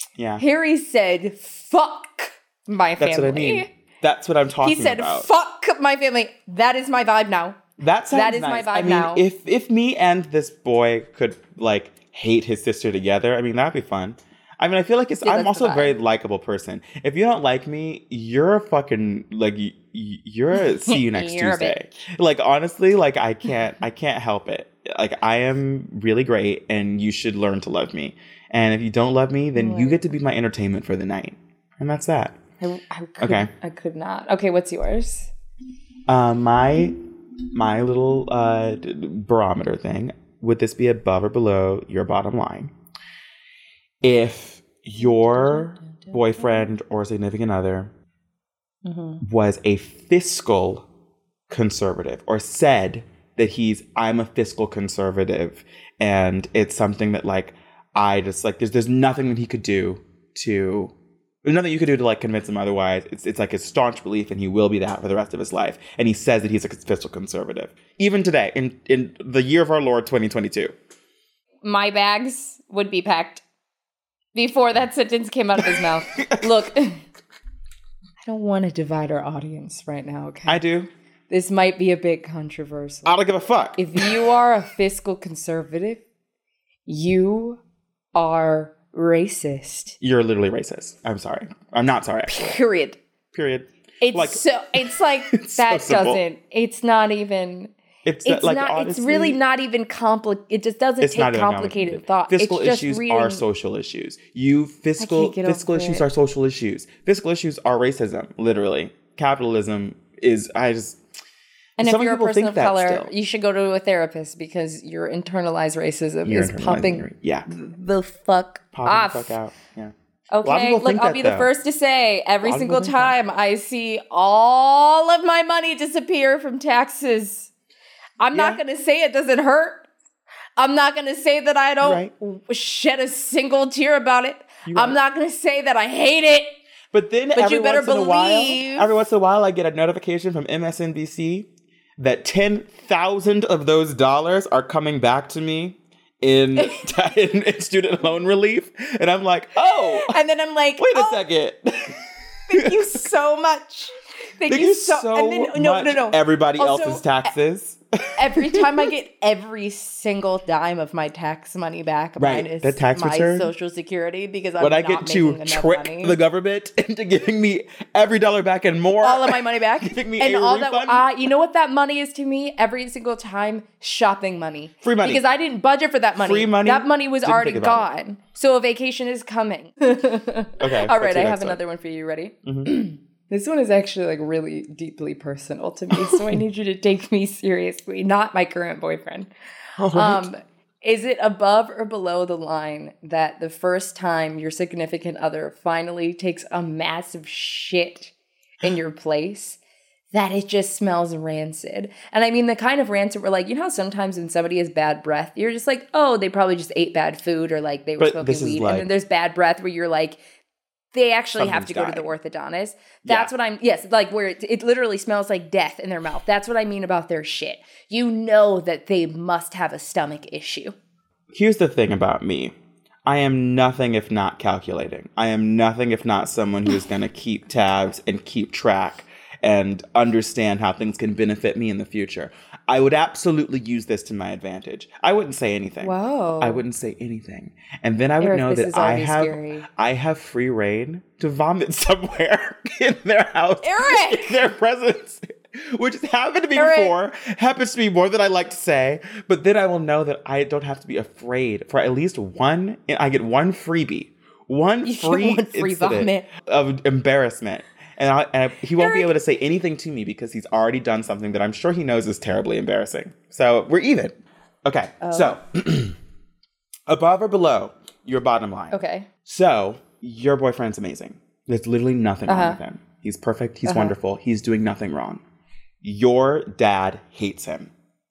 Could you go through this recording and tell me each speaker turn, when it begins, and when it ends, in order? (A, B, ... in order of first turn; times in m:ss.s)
0:00.2-0:00.4 A
0:00.4-0:03.7 B
0:03.0-0:05.3 A
0:04.6-0:07.6 B
0:07.8-0:32.4 A
0:08.1-0:09.2 B
0:15.2-0:15.9 B
0:20.8-0:21.8 B
0:29.6-0:30.0 B
0:32.6-0:35.3 B
0:33.2-0:33.5 A
0:36.1-0:37.0 A
0:37.5-0:42.7 A
0:44.0-0:47.9 A
0:45.0-0:46.6 B
0:48.8-0:49.2 B
0:49.2-0:50.9 A
0:51.5-1:10.7 A
1:11.6-1:13.4 B
1:14.4-1:17.0 B
1:15.6-1:16.5 A
1:18.2-1:20.6 B
1:20.5-1:20.9 A
1:21.3-1:23.2 B
1:23.0-1:24.2 A
1:23.8-1:26.0 B
1:26.9-1:27.6 B
1:28.2-1:30.0 B
1:30.0-1:32.5 A
1:32.3-1:33.0 B
1:33.3-1:36.2 A
1:34.0-1:37.7 B
1:38.0-1:39.4 A
1:38.2-1:43.4 B
1:41.0-1:51.0 A
1:45.0-1:46.0 B
1:51.8-1:53.1 A
1:51.8-1:59.3 B
1:56.2-1:57.5 A
1:58.7-2:01.5 A
2:00.3-2:07.5 B
2:02.4-2:03.2 A
2:08.2-2:09.9 B
2:08.3-2:08.6 A
2:10.6-2:16.6 B
2:11.8-2:12.1 A
2:14.6-2:15.0 A
2:16.9-2:30.2 A
2:17.3-2:19.0 B
2:26.6-2:26.8 B
2:29.6-2:31.2 B
2:30.8-2:32.0 A
2:32.5-2:37.3 B
2:32.5-2:32.8 A
2:34.5-2:37.8 A
2:38.2-2:46.2 B
2:38.3-2:38.8 A
2:42.2-2:43.5 A
2:44.6-2:51.1 A
2:49.0-3:09.3 B
2:54.8-2:55.2 A
2:56.2-2:57.9 A
3:00.6-3:01.6 A
3:02.4-3:02.7 A
3:09.8-3:10.3 A
3:09.9-3:19.6 B
3:20.1-3:30.2 B
3:28.0-3:28.9 A
3:30.9-3:40.8 B
3:31.4-3:32.1 A
3:33.0-3:33.3 A
3:41.3-3:42.5 A
3:43.1-4:25.9 A
3:55.8-3:56.6 B
3:58.2-3:59.7 B
4:03.6-4:04.4 B
4:06.6-4:06.9 B
4:14.8-4:16.3 B
4:18.8-4:19.1 B
4:25.0-4:25.4 B
4:26.9-4:35.2 A
4:28.7-4:29.1 B
4:32.3-4:32.6 B
4:33.7-4:33.9 B
4:35.8-4:37.7 A